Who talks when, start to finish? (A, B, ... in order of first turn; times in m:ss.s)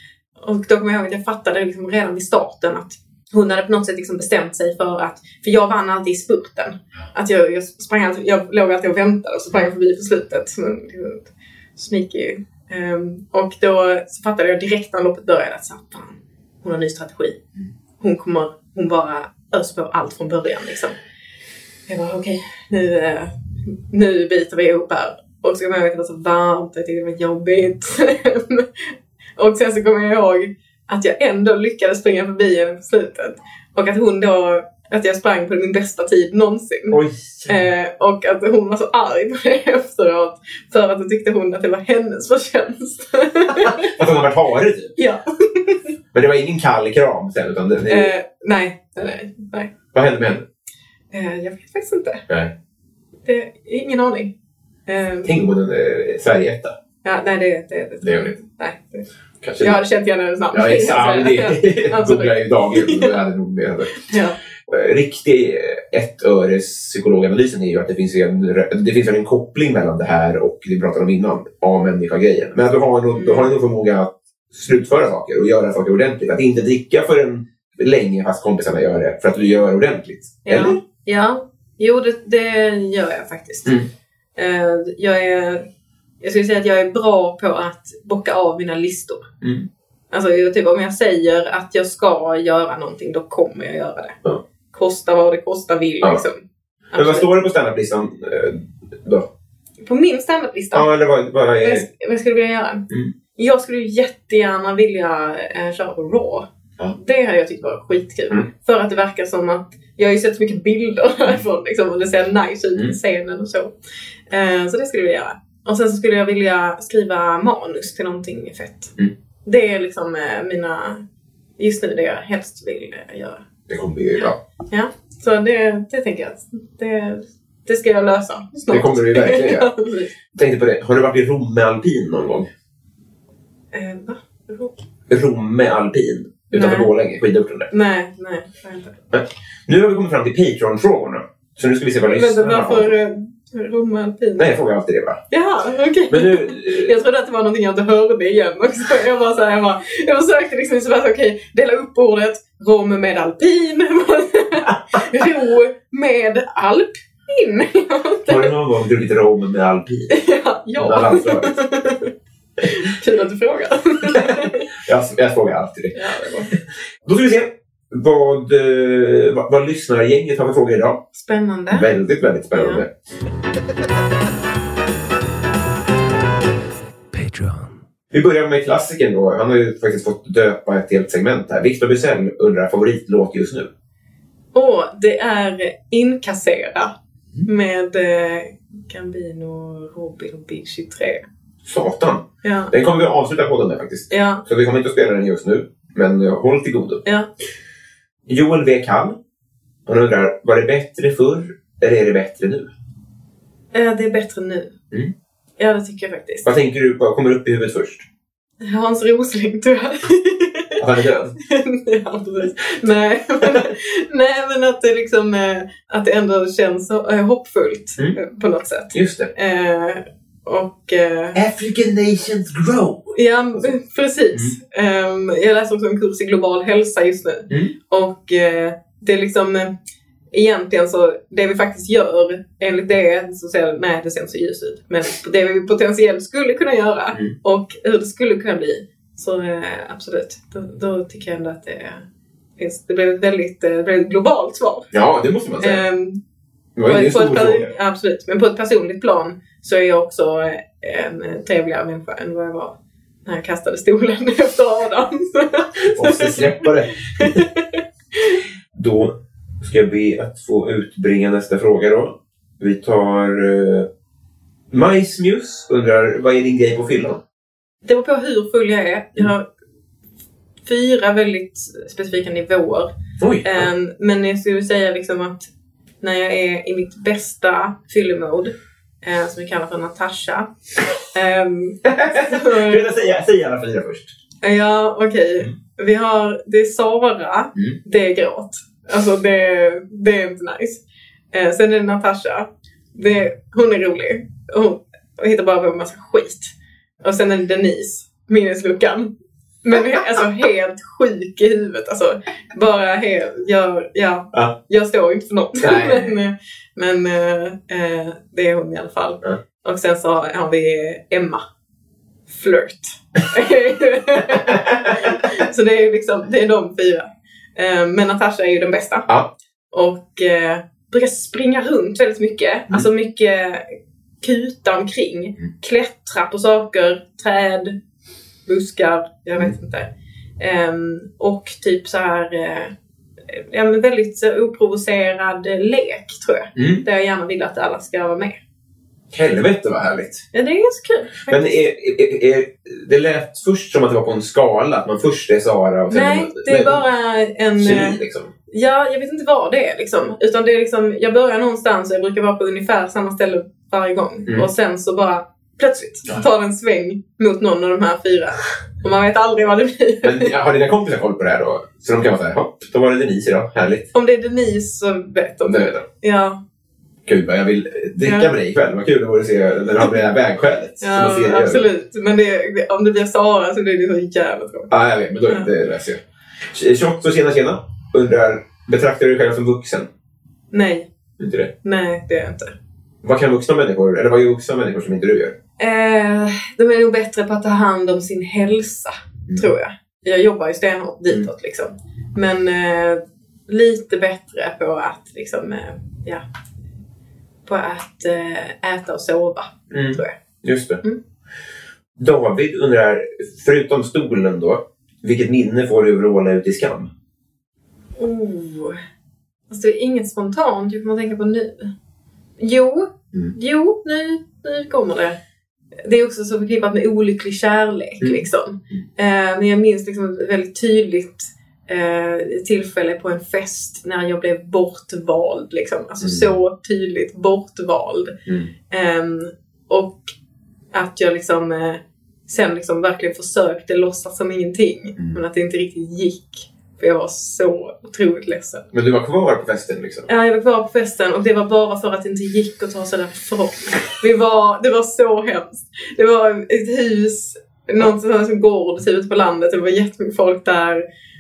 0:00.4-0:17.4 A
0:18.0-0:21.0 A
0:21.9-0:44.0 A
0:36.9-0:37.6 B
0:43.6-0:44.9 B
0:45.0-0:45.8 A
0:46.1-0:48.1 B
0:47.9-0:49.7 A
0:49.9-0:50.4 B
0:51.1-0:52.2 A
0:52.3-0:52.5 B
0:53.3-0:54.3 A
0:54.9-0:55.4 A
0:55.2-0:56.8 B
0:57.0-0:59.1 A
0:58.0-0:58.3 B
0:59.4-0:59.8 B
0:59.6-1:03.2 A
1:00.5-1:04.0 B
1:04.0-1:04.4 A
1:04.7-1:20.8 B
1:13.1-1:13.5 A
1:20.5-1:23.8 A
1:24.4-1:25.6 A
1:26.2-1:29.3 A
1:29.4-1:29.7 B
1:30.1-1:34.2 A
1:34.7-1:36.4 A
1:36.9-1:37.3 A
1:37.0-1:39.3 B
1:39.8-1:40.9 A
1:40.7-1:41.8 B
1:41.6-1:42.9 A
1:43.4-1:53.7 A
1:54.3-1:58.9 A
1:59.4-2:01.0 A
2:01.6-2:03.4 A
2:03.7-2:04.4 B
2:04.2-2:10.1 A
2:08.7-2:09.7 B
2:10.3-2:12.5 B
2:13.7-2:14.8 A
2:15.1-2:17.7 B
2:16.5-2:16.9 A
2:17.7-2:19.0 A
2:19.1-2:22.9 B
2:22.1-2:24.5 A
2:24.4-2:25.2 B
2:25.3-2:38.6 A
2:26.1-2:26.9 B
2:38.3-2:40.2 B
2:40.1-2:42.1 A
2:40.8-2:41.5 B
2:42.6-2:44.7 A
2:44.1-2:46.0 B
2:46.0-2:46.5 A
2:47.0-2:51.0 B
2:51.2-2:51.9 A
2:51.7-2:52.9 B
2:52.5-2:52.8 A
2:57.1-3:03.7 B
3:04.5-3:06.9 A
3:07.5-3:11.2 A
3:11.6-3:17.0 B
3:12.4-3:12.7 A
3:14.1-3:14.4 A
3:18.3-3:19.2 B
3:19.9-3:22.7 B
3:23.7-3:24.7 A
3:25.6-3:26.5 A
3:26.4-3:28.1 B
3:28.6-3:30.8 A
3:30.8-3:31.4 B
3:31.4-3:41.4 A
3:38.9-3:39.3 B
3:41.4-3:43.7 B
3:43.2-3:49.7 A
3:50.3-4:02.0 A
4:02.6-4:04.9 A
4:04.9-4:05.8 B
4:05.6-4:06.2 A
4:06.8-4:07.7 B
4:06.9-4:18.4 A
4:15.9-4:17.4 B
4:18.7-4:23.9 B
4:24.7-4:27.2 B
4:27.8-4:29.4 A
4:30.7-4:32.9 A
4:33.2-4:33.7 B
4:33.4-4:35.5 A
4:36.0-4:40.5 A
4:41.1-4:42.8 A
4:41.9-4:44.1 B
4:44.4-4:50.8 A
4:51.3-4:59.1 A
4:59.6-5:11.4 A
5:05.6-5:06.2 B
5:12.3-5:19.1 A
5:14.4-5:14.9 B
5:19.7-5:23.6 A
5:24.2-5:27.8 A
5:28.5-5:29.9 A
5:30.4-5:32.7 A
5:33.3-5:38.4 A
5:36.6-5:36.8 B
5:39.1-5:40.2 B
5:40.3-5:41.6 A
5:41.3-5:46.8 B
5:45.9-5:48.0 A
5:47.6-5:48.3 B
5:48.5-6:00.3 A
6:00.0-6:03.9 B
6:03.9-6:06.4 A
6:05.4-6:05.8 B
6:07.1-6:11.7 B
6:08.0-6:08.3 A
6:10.8-6:14.7 A
6:14.7-6:19.9 B
6:20.5-6:20.9 A
6:21.2-6:21.5 B
6:21.6-6:22.6 A
6:23.0-6:25.4 B
6:25.6-6:36.2 A
6:37.5-6:40.2 A
6:39.7-6:40.8 B
6:42.0-6:46.9 B
6:48.0-6:48.8 A
6:49.5-6:51.7 A
6:52.4-6:55.2 A
6:55.8-7:08.2 A
7:06.0-7:06.3 B
7:08.7-7:10.1 A
7:10.7-7:18.7 A
7:18.7-7:20.1 B
7:20.1-7:30.8 A